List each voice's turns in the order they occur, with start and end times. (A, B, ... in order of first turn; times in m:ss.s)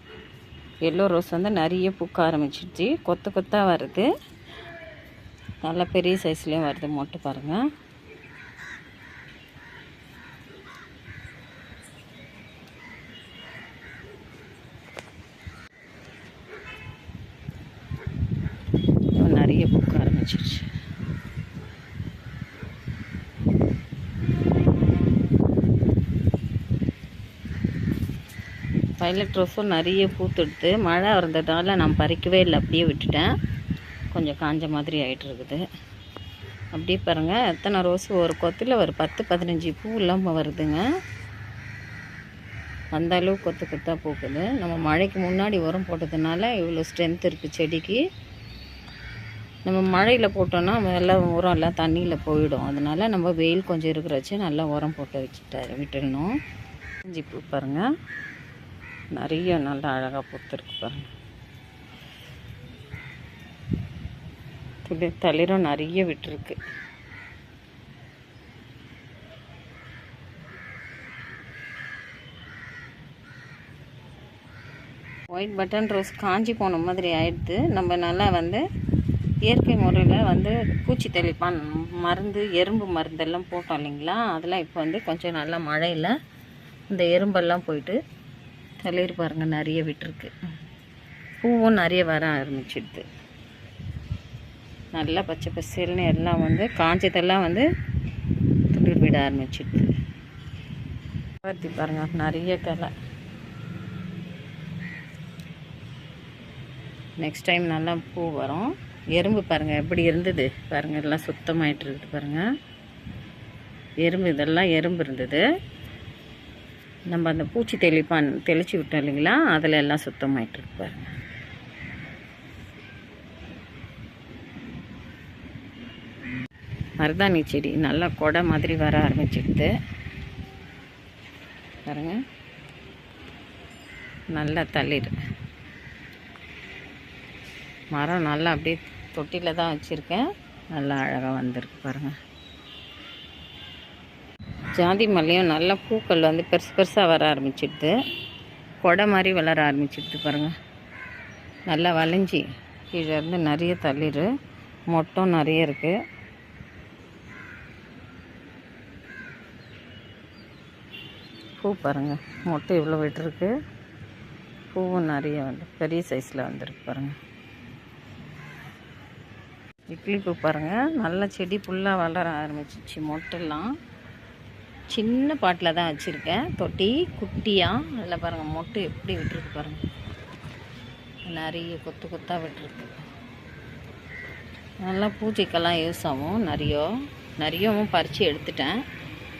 0:00.8-0:04.1 A
0:05.6-0:07.6 A
0:19.1-0:20.7 A
0:29.0-0:33.3 A
0:34.1-0:35.6 A
0:36.7-0:40.8 A
0:42.9-0:48.0 A
0:49.6-0:56.3 A
0:57.0-0:57.8 A
0:59.1-1:01.1 A
1:04.8-1:06.6 A
1:15.3-1:18.6 A
1:19.4-1:26.1 A
1:26.9-1:28.0 A
1:28.8-1:30.3 A
1:31.4-1:33.0 A
1:34.9-1:37.7 A
1:38.7-1:39.9 A
1:41.4-1:42.9 A
1:47.2-1:52.4 A
1:54.0-1:55.4 A
1:57.1-2:01.1 A
2:07.0-2:09.7 A
2:11.9-2:12.2 A
2:14.3-2:15.1 A
2:17.9-2:22.1 A
2:24.7-2:28.0 A
2:28.8-2:30.5 A
2:31.7-2:34.3 A
2:34.9-2:36.0 A
2:41.6-2:43.5 A
2:44.7-2:47.2 A
2:49.9-2:53.7 A
2:54.9-2:59.8 A
3:01.3-3:03.0 A
3:04.8-3:08.8 A